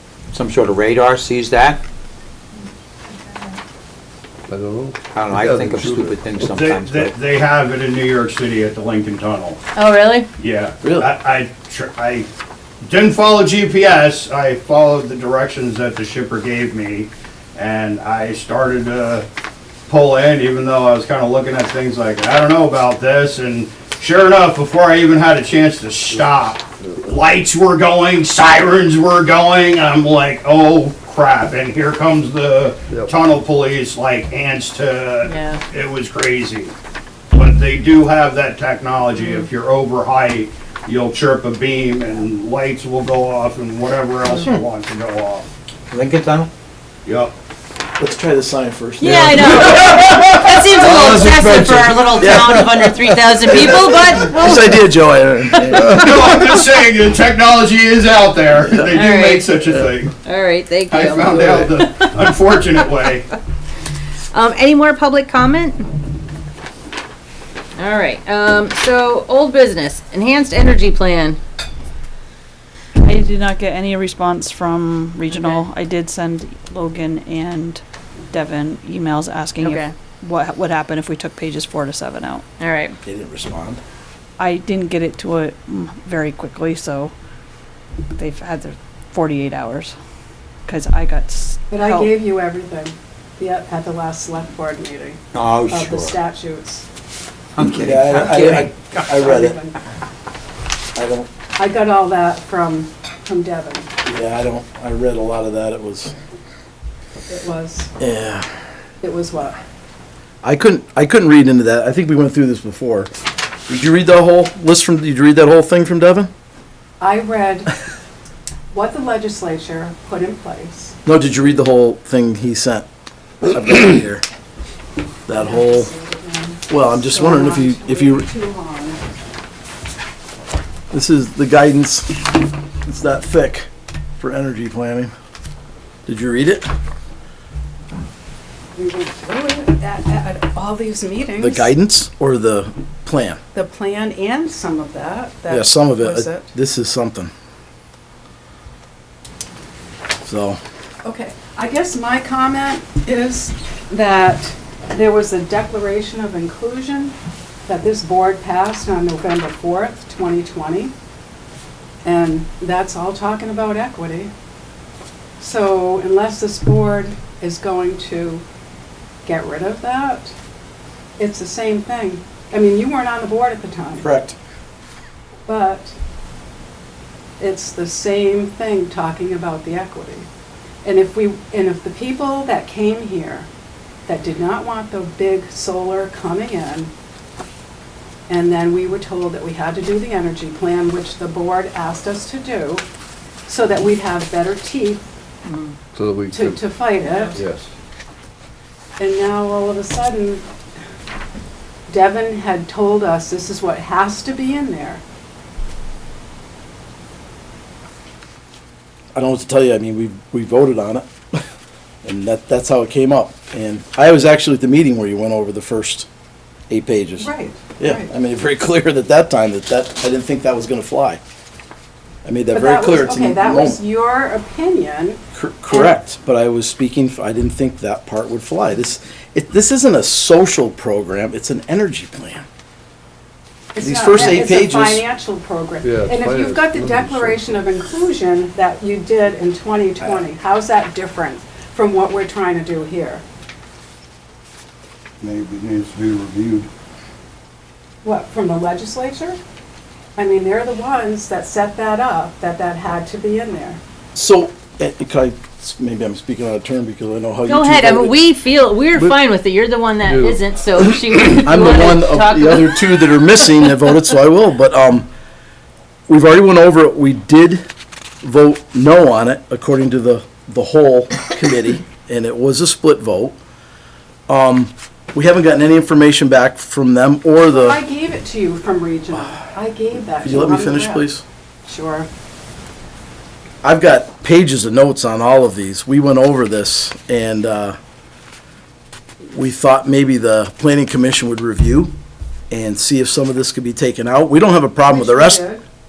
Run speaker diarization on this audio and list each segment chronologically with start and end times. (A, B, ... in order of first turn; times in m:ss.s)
0:00.3-0:01.8 A
0:04.5-0:06.5 B
0:05.1-0:07.2 A
0:06.4-0:09.6 C
0:09.8-0:10.3 D
0:10.4-0:12.3 C
0:10.8-0:11.1 E
0:12.9-0:19.3 C
0:19.9-0:36.8 C
0:35.2-0:35.6 D
0:37.3-0:45.5 C
0:39.2-0:39.5 D
0:45.9-0:46.5 A
0:47.1-0:47.3 C
0:48.0-0:56.4 E
0:49.0-0:55.9 D
0:55.9-1:00.1 C
0:58.9-0:59.5 D
1:00.2-1:03.1 D
1:00.9-1:03.2 C
1:04.3-1:05.8 D
1:07.8-1:11.4 D
1:13.0-1:22.4 F
1:15.3-1:15.6 D
1:19.6-1:19.9 D
1:22.6-1:23.0 D
1:23.0-1:23.8 E
1:24.4-1:27.1 F
1:28.1-1:30.0 F
1:30.7-1:32.1 F
1:31.7-1:36.8 G
1:35.3-1:36.2 A
1:37.6-1:38.7 A
1:37.8-1:39.6 E
1:39.1-1:39.8 G
1:41.0-1:41.3 E
1:41.6-1:43.9 G
1:44.0-1:46.1 E
1:47.3-1:47.9 G
1:48.0-1:48.5 E
1:49.0-1:49.6 G
1:50.4-1:53.1 E
1:53.7-1:56.3 E
1:57.0-1:57.7 G
1:58.7-2:01.0 G
2:01.1-2:02.8 E
2:03.5-2:04.2 E
2:05.3-2:05.9 E
2:05.3-2:09.0 G
2:06.7-2:08.3 E
2:10.9-2:12.2 E
2:12.8-2:13.7 E
2:14.2-2:15.1 E
2:16.1-2:16.7 E
2:18.7-2:21.7 G
2:21.4-2:23.4 E
2:23.5-2:26.5 G
2:25.5-2:27.3 E
2:30.2-2:30.6 E
2:31.0-2:37.2 G
2:37.7-2:40.9 G
2:42.0-2:44.3 G
2:45.4-2:48.4 G
2:49.2-2:50.3 G
2:51.2-2:54.1 G
2:54.0-2:54.4 E
2:55.5-2:56.0 G
2:57.4-3:00.3 G
3:00.8-3:03.5 G
3:04.1-3:06.9 G
3:08.3-3:12.8 G
3:13.5-3:15.0 G
3:15.5-3:15.8 D
3:16.0-3:16.6 B
3:16.3-3:17.4 G
3:17.4-3:17.7 B
3:19.0-3:20.4 G
3:21.9-3:25.0 G
3:29.2-3:31.1 E
3:32.0-3:36.1 E
3:36.7-3:41.2 E
3:37.2-3:38.1 G
3:42.2-3:43.8 E
3:42.5-3:46.0 G
3:45.3-3:52.4 E
3:53.8-4:03.2 G
3:53.8-3:55.0 E
3:55.8-3:57.6 B
4:05.2-4:06.7 C
4:08.0-4:09.4 G
4:10.2-4:13.8 G
4:14.2-4:18.2 E
4:17.4-4:23.8 D
4:20.0-4:20.4 B
4:21.3-4:25.1 E
4:26.1-4:27.6 E
4:28.2-4:33.4 E
4:34.3-4:37.8 E
4:37.5-4:41.1 G
4:40.2-4:41.2 E
4:41.7-4:42.1 G
4:43.6-4:47.8 E
4:49.3-4:51.9 E
4:52.5-4:55.4 E
4:54.8-4:55.6 G